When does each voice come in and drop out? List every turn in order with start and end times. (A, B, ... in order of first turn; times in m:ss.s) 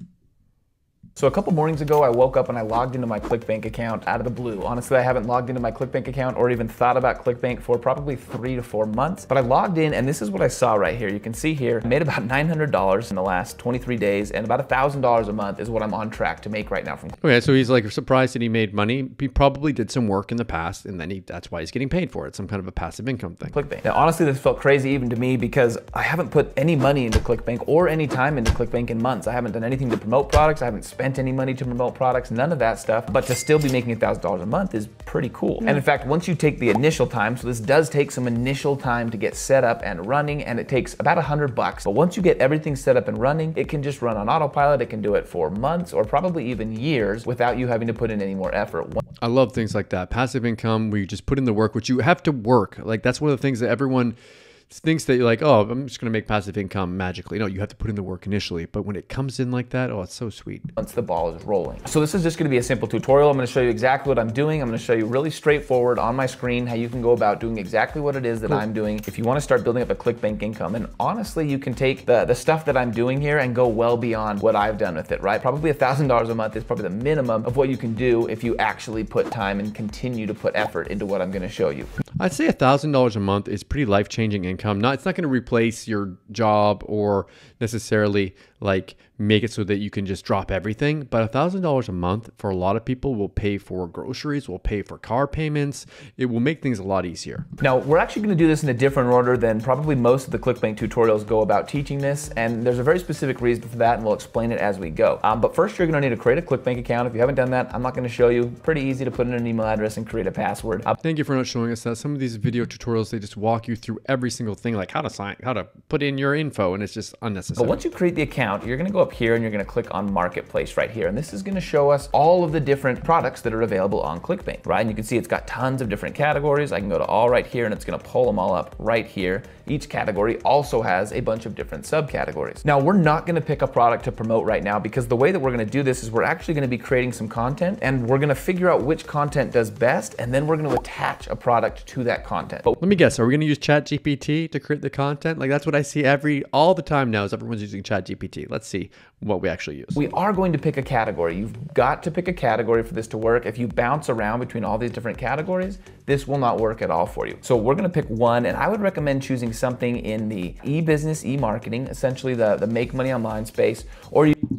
0:01.2-0:17.2 A
0:17.2-0:23.6 B
0:23.5-0:49.0 A
0:49.2-0:54.1 B
0:54.7-1:00.7 B
1:00.8-1:21.9 A
1:22.2-1:37.5 B
1:37.6-1:51.0 A
1:51.0-1:57.8 B
1:57.6-2:22.8 A
2:22.8-2:30.0 B
2:29.9-2:44.4 A